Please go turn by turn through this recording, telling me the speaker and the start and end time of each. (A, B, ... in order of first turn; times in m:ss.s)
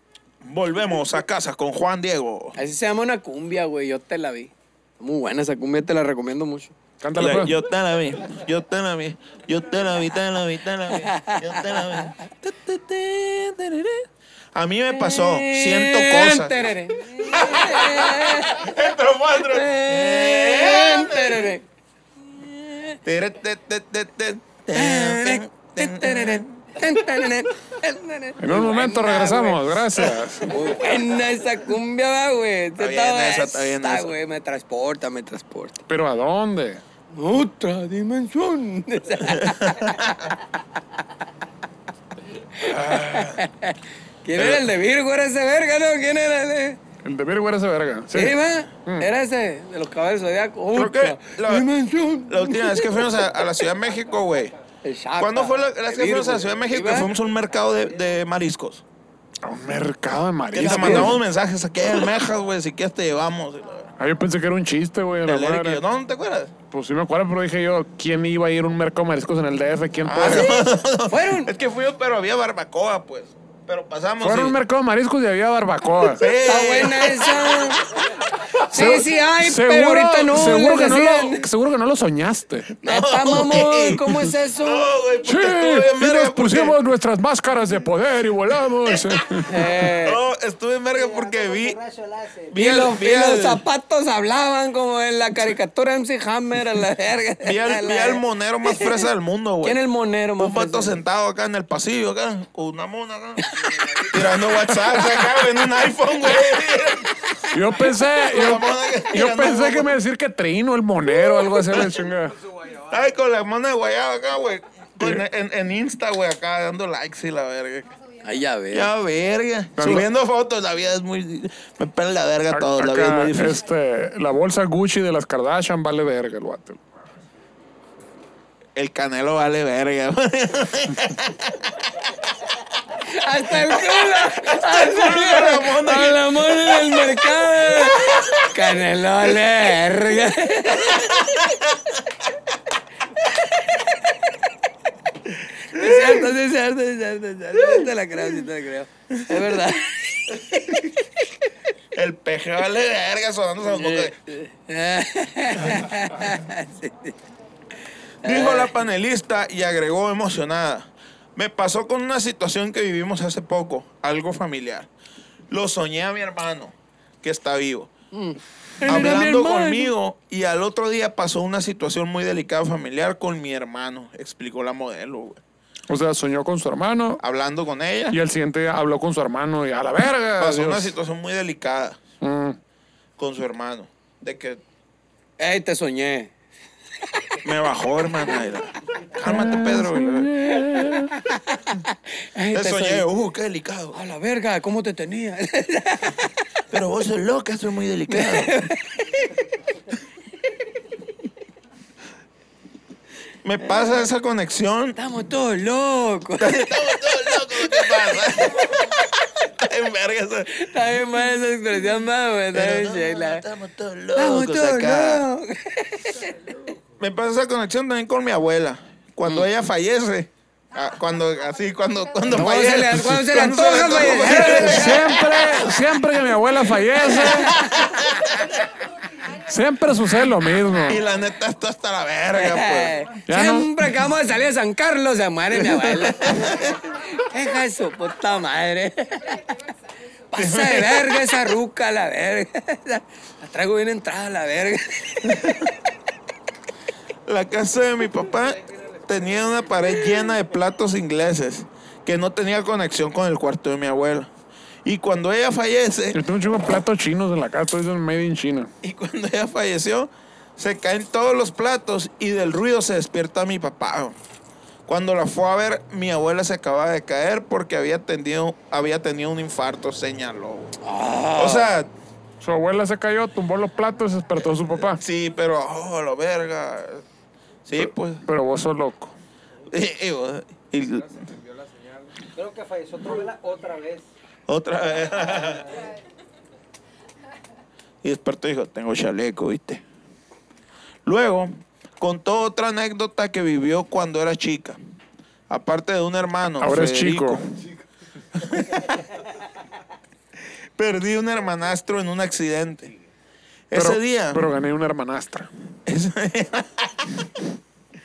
0:00.4-0:02.6 A
0:02.6-0:06.8 B
0:07.0-0:07.6 C
0:07.2-0:21.6 A
0:10.9-0:12.2 B
0:14.9-0:18.8 B
0:19.4-0:21.6 B
0:22.3-0:23.0 B
0:23.0-0:26.7 A
0:24.7-0:29.8 B
0:28.4-0:30.5 C
0:30.4-0:35.8 B
0:32.8-0:34.1 A
0:35.9-0:36.8 C
0:37.1-0:40.6 B
0:39.3-0:40.1 A
0:42.6-0:46.8 B
0:42.9-0:43.3 A
0:44.4-0:44.6 A
0:47.0-0:49.1 C
0:48.1-0:53.2 B
0:50.7-0:51.7 A
0:52.3-0:54.5 A
0:53.6-0:54.6 D
0:54.8-0:57.2 B
0:55.2-0:58.8 A
0:57.5-0:58.1 D
0:59.4-1:01.2 C
1:00.5-1:03.9 A
1:00.6-1:01.1 B
1:04.0-1:05.8 C
1:05.2-1:06.5 A
1:06.7-1:10.6 C
1:10.0-1:14.6 A
1:10.2-1:11.5 B
1:14.2-1:16.2 C
1:16.1-1:18.0 A
1:16.3-1:17.9 B
1:18.6-1:22.7 C
1:18.7-1:21.5 B
1:22.8-1:26.8 A
1:22.8-1:24.9 B
1:25.2-1:29.8 C
1:29.5-1:30.2 B
1:30.0-1:31.8 A
1:30.9-1:32.7 D
1:32.5-1:33.6 A
1:32.5-1:39.1 B
1:37.4-1:39.8 A
1:39.6-1:41.0 B
1:40.4-1:43.5 A
1:43.4-1:45.4 B
1:43.6-1:44.2 D
1:44.1-1:50.0 A
1:47.5-1:52.4 C
1:52.4-1:53.1 D
1:52.9-1:57.9 A
1:58.2-1:58.9 B
1:58.7-2:03.6 A
1:59.8-2:00.1 C
2:02.5-2:06.8 C
2:08.8-2:11.7 A
2:13.1-2:21.4 B
2:13.6-2:18.5 A
2:20.8-2:21.5 A
2:23.4-2:23.9 B
2:25.6-2:30.4 B
2:25.6-2:26.3 A
2:27.6-2:27.9 A
2:29.1-2:29.4 A
2:30.3-2:30.9 A
2:31.9-2:34.2 A
2:33.6-2:37.2 B
2:38.2-2:38.7 B
2:38.2-2:44.9 A
2:45.5-2:47.9 A
2:48.1-2:49.9 B
2:48.8-2:55.4 A
2:55.9-2:57.2 C
2:57.2-2:58.2 A
2:58.1-3:00.9 C
3:00.4-3:02.0 A
3:02.2-3:02.6 C
3:03.2-3:04.6 A
3:05.4-3:06.3 B
3:07.4-3:10.3 A
3:09.2-3:11.1 C
3:10.6-3:13.0 B
3:12.5-3:14.0 A
3:13.9-3:16.3 B
3:16.7-3:18.7 A
3:18.1-3:19.4 B
3:23.4-3:25.0 A
3:25.0-3:28.4 B
3:26.4-3:30.7 A
3:30.5-3:33.4 B
3:32.5-3:35.3 A
3:34.2-3:36.7 B
3:37.0-3:45.8 A
3:42.3-3:45.2 B
3:44.1-3:47.6 C
3:47.0-3:48.4 B
3:47.5-3:48.3 A
3:49.5-3:51.0 C
3:50.8-3:53.0 A
3:52.4-3:59.5 B
3:53.3-3:53.7 C
3:56.0-3:56.6 A
4:00.3-4:05.7 B
4:00.3-4:01.4 A
4:05.3-4:05.6 A
4:07.3-4:14.3 A
4:08.3-4:09.7 D
4:14.8-4:16.2 A
4:16.1-4:18.7 C
4:18.8-4:24.2 A
4:24.9-4:30.8 A
4:30.8-4:31.7 B
4:31.4-4:31.9 A
4:32.4-4:35.0 C
4:34.9-4:37.0 A
4:37.6-4:38.2 A
4:37.8-4:39.1 C
4:39.7-4:41.2 A
4:41.4-4:44.1 D
4:44.5-4:45.7 A
4:45.3-4:45.9 D
4:48.0-4:49.8 A
4:51.1-4:54.8 A
4:55.5-4:57.4 A
4:56.6-4:57.5 C
4:58.4-4:59.0 A
5:00.8-5:02.9 A
5:03.7-5:04.4 A
5:03.7-5:05.5 C
5:05.9-5:07.3 A